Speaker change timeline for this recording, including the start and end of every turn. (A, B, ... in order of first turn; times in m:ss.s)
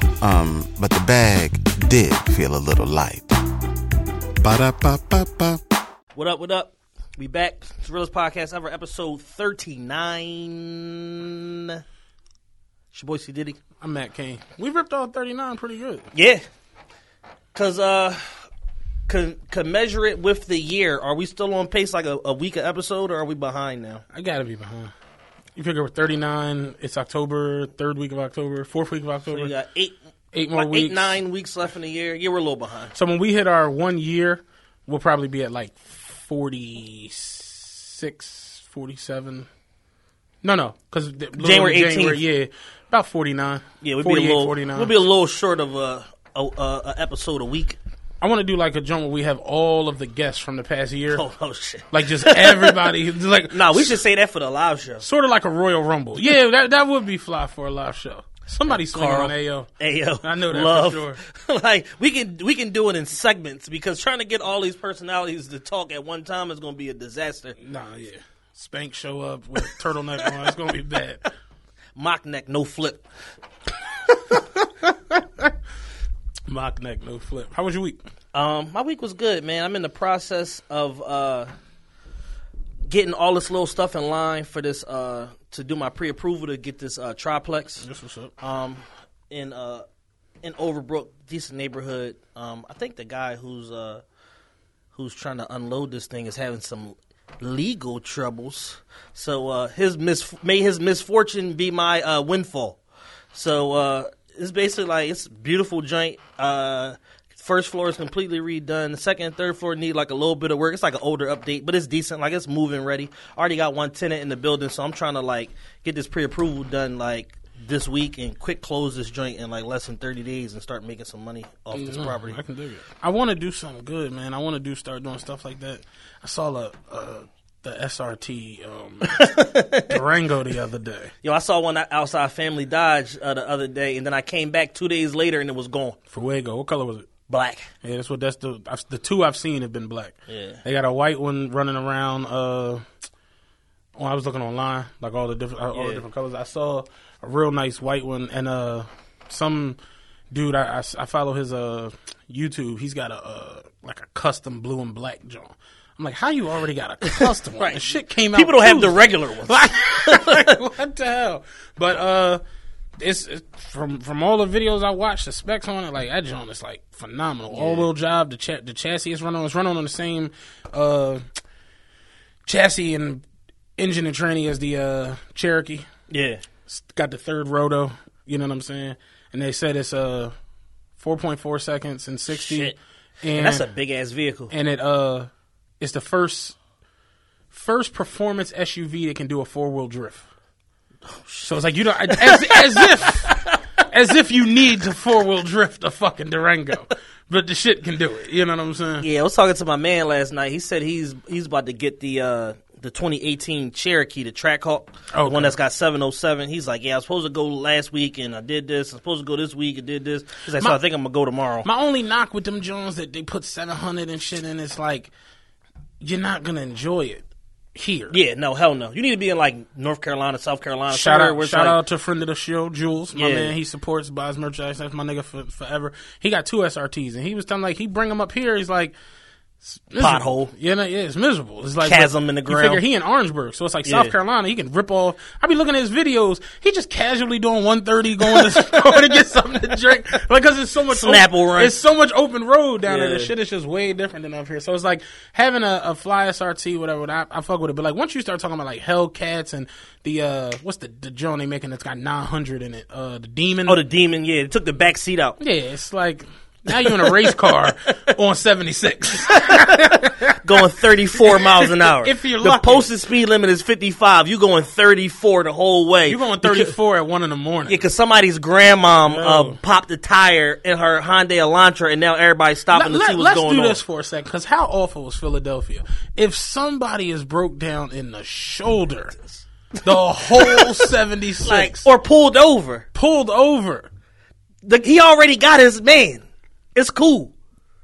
0:00.2-0:03.3 A
0:04.4-0:05.6 A
0:06.2-0:11.8 B
0:12.9-0:13.6 B
0:13.8-0:16.1 C
0:16.1-0:16.4 B
0:17.6-0:18.5 B
0:19.1-0:24.0 B
0:24.1-0:24.9 C
0:25.6-0:29.5 C
0:29.3-0:30.0 B
0:30.3-0:31.2 C
0:30.6-0:32.9 B
0:32.9-0:39.5 C
0:40.4-0:44.9 C
0:41.4-0:42.2 B
0:43.8-0:47.8 B
0:48.2-0:51.2 C
0:51.2-0:52.9 B
0:51.9-0:54.0 C
0:53.5-0:55.0 B
0:55.0-0:59.7 C
0:58.7-1:07.6 B
1:00.2-1:01.2 C
1:07.6-1:11.2 C
1:12.0-1:13.0 B
1:14.1-1:15.5 C
1:16.5-1:18.0 C
1:18.3-1:21.5 B
1:22.9-1:27.8 B
1:27.8-1:28.3 C
1:28.4-1:29.8 B
1:30.4-1:34.0 B
1:34.9-1:42.8 B
1:43.3-2:02.4 B
2:01.7-2:11.1 C
2:09.1-2:10.0 B
2:11.2-2:16.0 B
2:16.1-2:17.1 C
2:17.3-2:17.7 B
2:17.8-2:22.8 C
2:20.3-2:20.6 B
2:24.0-2:29.8 C
2:25.7-2:26.0 B
2:30.3-2:42.4 C
2:37.1-2:40.5 B
2:43.0-2:51.2 C
2:47.5-2:47.9 B
2:52.5-2:53.2 C
2:53.8-2:55.9 C
2:56.1-2:56.4 B
2:56.7-3:00.4 C
3:01.0-3:03.6 C
3:02.3-3:02.8 B
3:03.4-3:04.5 B
3:04.5-3:06.6 C
3:07.5-3:10.3 C
3:11.1-3:11.5 B
3:11.4-3:19.1 C
3:12.1-3:13.6 B
3:19.0-3:31.7 B
3:25.1-3:25.6 C
3:31.6-3:35.1 C
3:36.0-3:38.2 C
3:38.1-3:41.8 B
3:40.9-3:49.0 C
3:43.2-3:43.5 B
3:49.6-4:13.8 C
3:50.0-3:50.5 B
3:51.8-3:52.8 B
3:53.9-3:54.1 B
3:58.4-3:59.0 B
4:00.9-4:01.8 B
4:02.8-4:03.3 B
4:13.7-4:15.4 B
4:15.4-4:20.4 C
4:19.3-4:19.9 B
4:20.4-4:26.7 B
4:21.2-4:22.9 C
4:26.1-4:27.8 C
4:27.7-4:33.8 B
4:29.1-4:29.6 C
4:32.7-4:39.2 C
4:39.8-4:41.9 C
4:40.4-4:40.8 B
4:41.4-4:42.9 B
4:42.9-4:43.9 C
4:44.6-4:47.3 B